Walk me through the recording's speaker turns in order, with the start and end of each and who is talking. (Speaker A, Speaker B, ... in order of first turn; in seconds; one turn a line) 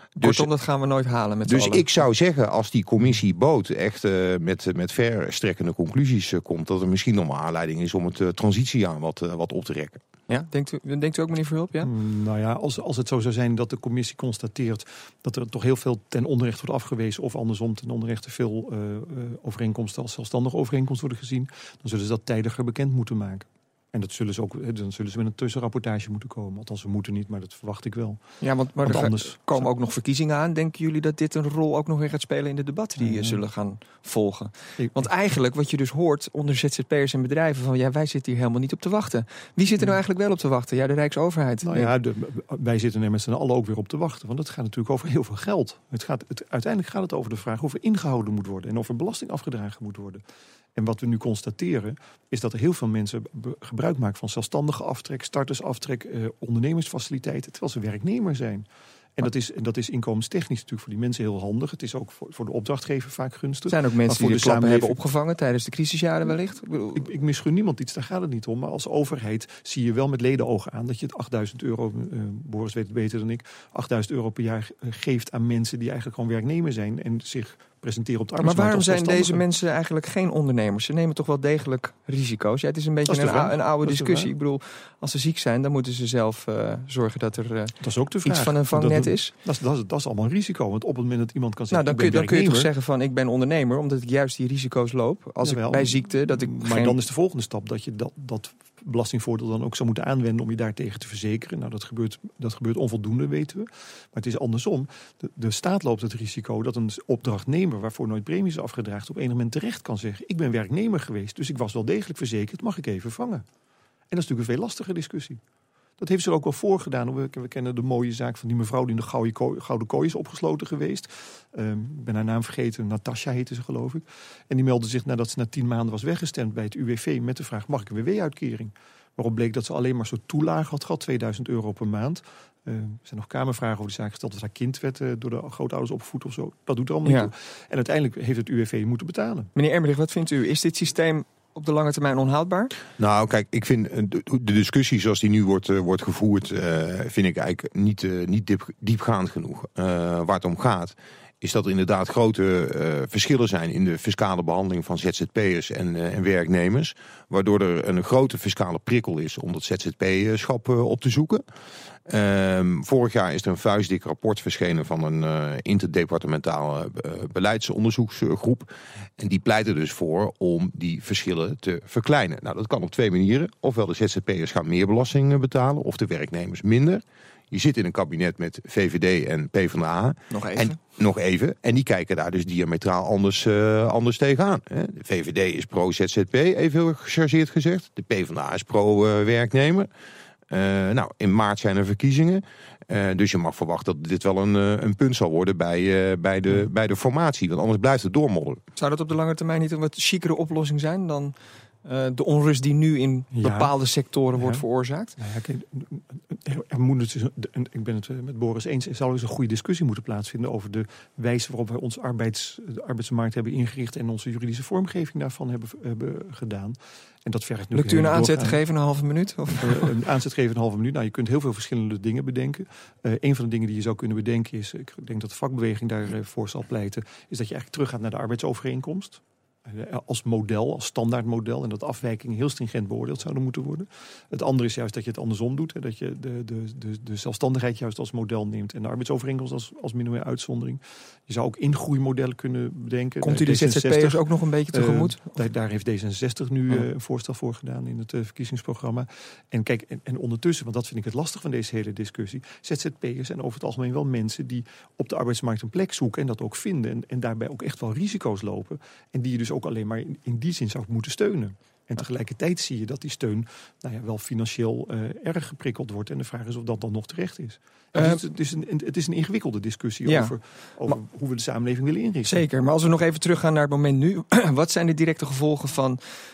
Speaker A: 0.2-0.5
Speaker B: 0.2-1.9
Speaker A: 1.5-10.0
Speaker B: 10.3-11.9
Speaker C: 11.8-28.2
Speaker B: 28.4-41.9
Speaker C: 28.8-29.7
Speaker C: 33.0-33.4
Speaker C: 34.8-35.0
Speaker C: 41.6-50.2
Speaker C: 50.8-58.7
Speaker C: 59.2-65.0
Speaker B: 63.7-67.1
Speaker C: 66.9-79.4
Speaker B: 78.4-89.3
Speaker C: 83.1-84.3
Speaker C: 87.8-92.7
Speaker B: 91.7-97.0
Speaker C: 95.4-113.5
Speaker C: 114.1-115.4
Speaker C: 116.0-139.5
Speaker B: 137.1-137.3
Speaker B: 139.6-142.7
Speaker A: 143.0-161.4
Speaker A: 162.1-189.9
Speaker B: 180.3-180.8
Speaker A: 190.5-198.6
Speaker B: 198.8-205.2
Speaker C: 203.3-203.7
Speaker C: 204.3-204.6
Speaker C: 205.2-218.6
Speaker B: 217.7-219.9
Speaker C: 219.6-272.4
Speaker B: 243.2-245.2
Speaker B: 267.9-268.2
Speaker B: 270.1-270.4
Speaker B: 272.3-276.0